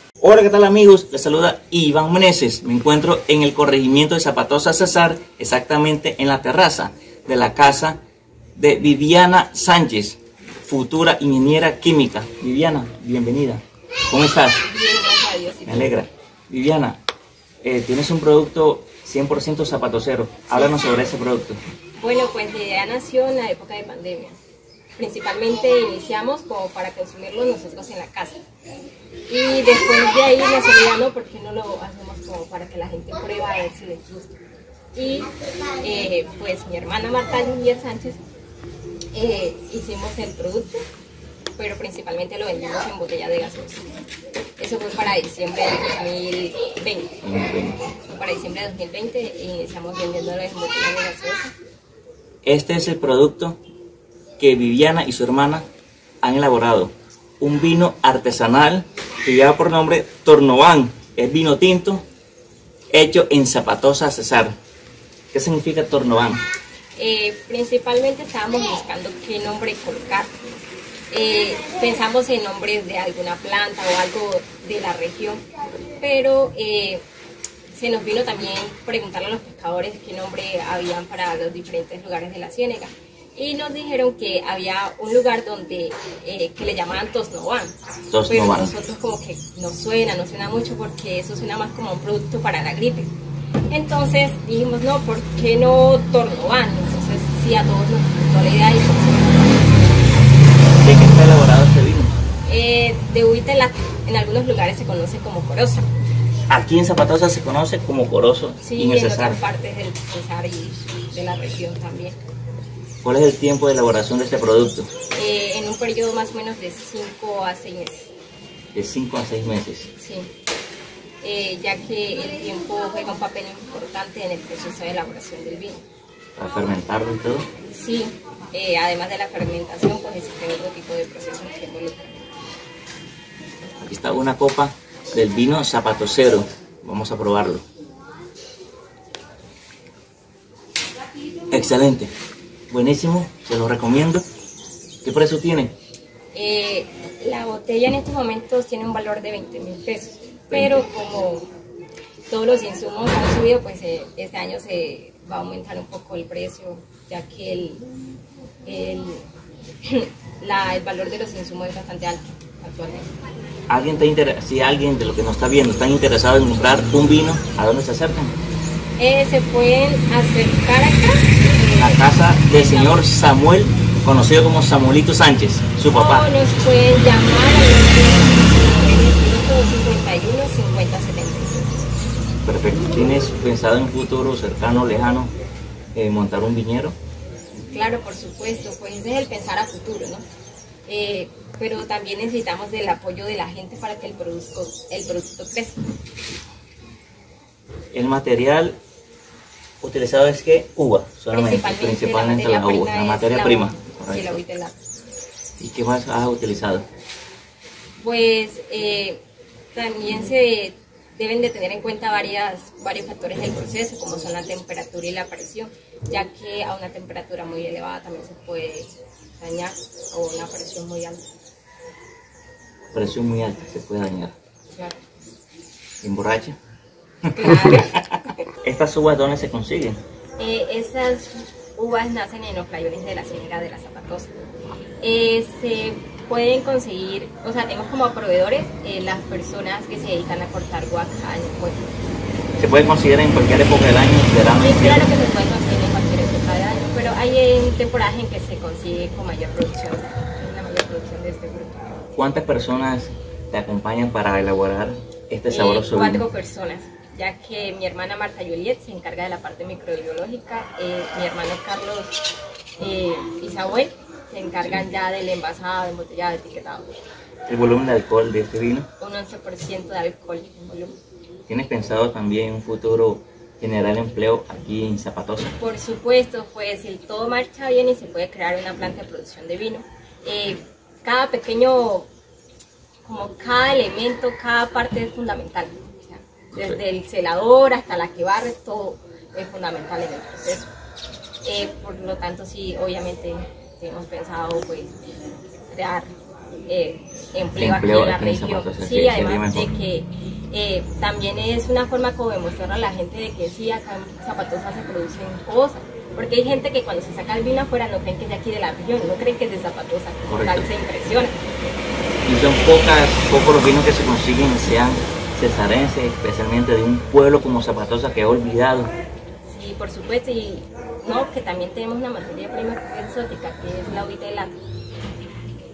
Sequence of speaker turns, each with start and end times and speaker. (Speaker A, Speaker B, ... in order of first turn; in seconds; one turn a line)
Speaker A: 0.2-8.0
Speaker A: 8.6-14.6
Speaker B: 14.6-15.9
Speaker A: 15.7-17.0
Speaker A: 17.6-21.6
Speaker B: 20.5-21.1
Speaker B: 22.0-24.4
Speaker B: 25.0-28.4
Speaker B: 29.3-34.4
Speaker B: 34.9-35.3
Speaker B: 35.8-38.2
Speaker B: 39.1-40.8
Speaker B: 41.6-43.8
Speaker B: 44.6-47.1
Speaker A: 47.2-47.8
Speaker B: 48.0-51.5
Speaker A: 52.4-53.6
Speaker A: 54.4-55.6
Speaker A: 56.2-62.0
Speaker A: 62.9-64.5
Speaker A: 65.3-66.4
Speaker B: 67.0-70.3
Speaker B: 71.1-77.0
Speaker B: 77.7-87.7
Speaker A: 88.1-88.7
Speaker B: 88.3-93.1
Speaker B: 93.7-100.1
Speaker A: 100.8-102.1
Speaker B: 102.5-105.9
Speaker A: 106.5-109.4
Speaker B: 108.6-112.2
Speaker A: 113.0-114.9
Speaker B: 115.1-118.1
Speaker A: 118.7-119.9
Speaker B: 120.0-120.3
Speaker B: 121.2-125.8
Speaker A: 126.4-127.5
Speaker B: 127.7-132.2
Speaker A: 133.8-137.6
Speaker A: 141.5-142.1
Speaker A: 142.7-144.2
Speaker A: 145.0-145.7
Speaker B: 146.3-151.5
Speaker A: 150.5-150.9
Speaker B: 152.3-157.8
Speaker B: 158.6-159.2
Speaker B: 159.8-163.1
Speaker A: 163.7-168.3
Speaker B: 169.0-173.0
Speaker A: 171.7-176.3
Speaker B: 175.9-181.9
Speaker A: 182.4-185.3
Speaker A: 185.9-186.9
Speaker B: 187.6-190.2
Speaker B: 190.9-195.8
Speaker A: 197.9-198.8
Speaker A: 199.8-204.4
Speaker B: 201.3-204.8
Speaker A: 205.6-206.8
Speaker B: 208.0-209.2
Speaker B: 209.7-221.2
Speaker A: 222.9-224.3
Speaker B: 224.7-225.0
Speaker A: 226.0-226.6
Speaker B: 227.3-228.1
Speaker A: 227.4-228.0
Speaker A: 228.6-230.0
Speaker B: 230.4-234.3
Speaker B: 235.0-241.9
Speaker A: 242.6-245.1
Speaker B: 244.6-252.0
Speaker A: 252.2-256.2
Speaker B: 255.5-262.2
Speaker B: 262.8-267.0
Speaker A: 267.5-268.9
Speaker B: 269.0-270.9
Speaker A: 271.5-275.6
Speaker B: 275.6-282.1
Speaker B: 283.0-290.7
Speaker A: 286.5-286.8
Speaker B: 291.4-295.0
Speaker B: 295.7-296.1
Speaker B: 296.7-311.4
Speaker A: 297.5-299.7
Speaker A: 310.3-310.7
Speaker A: 312.2-318.9
Speaker B: 319.4-324.5